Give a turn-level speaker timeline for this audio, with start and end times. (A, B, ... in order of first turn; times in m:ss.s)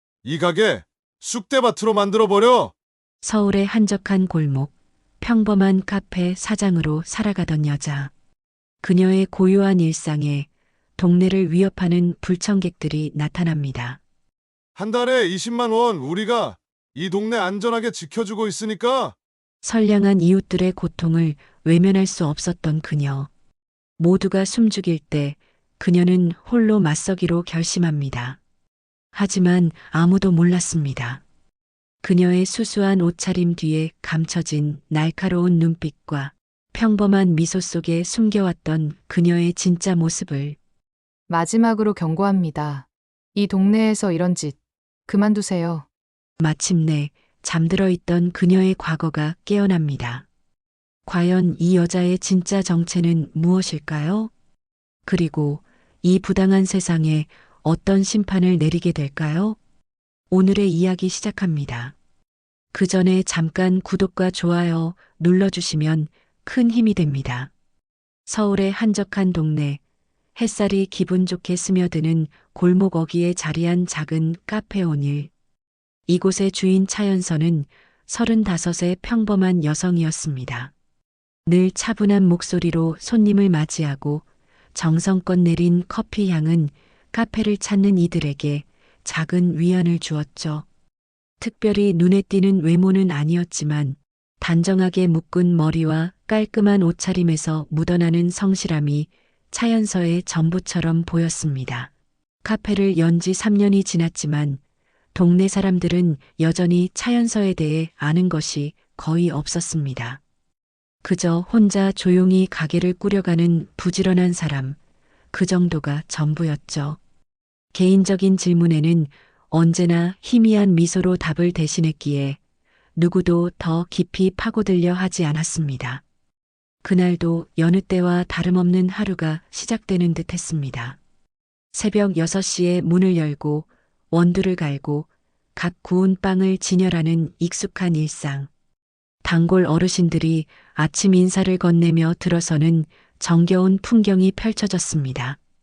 0:00.2-0:02.7 A
0:03.2-0:08.1 B
0:08.8-0:14.0 B
0:14.8-0:19.1 A
0:19.6-0:23.3 B
0:24.0-0:28.4 B
0:29.1-0:31.2 B
0:32.0-0:40.6 B
0:41.3-0:45.9 C
0:46.4-0:50.3 B
0:51.0-0:54.3 B
0:55.0-0:59.6 B
1:00.3-1:01.9 B
1:02.7-1:07.5 B
1:08.3-1:09.8 B
1:10.4-1:15.3 B
1:16.1-1:20.7 B
1:21.4-1:24.2 B
1:24.7-1:30.6 B
1:31.4-1:41.9 B
1:42.4-1:44.6 B
1:45.1-1:50.2 B
1:51.0-1:54.8 B
1:55.3-1:57.0 B
1:57.7-2:02.4 B
2:03.0-2:06.0 B
2:06.8-2:11.0 B
2:11.7-2:18.5 B
2:19.2-2:25.4 B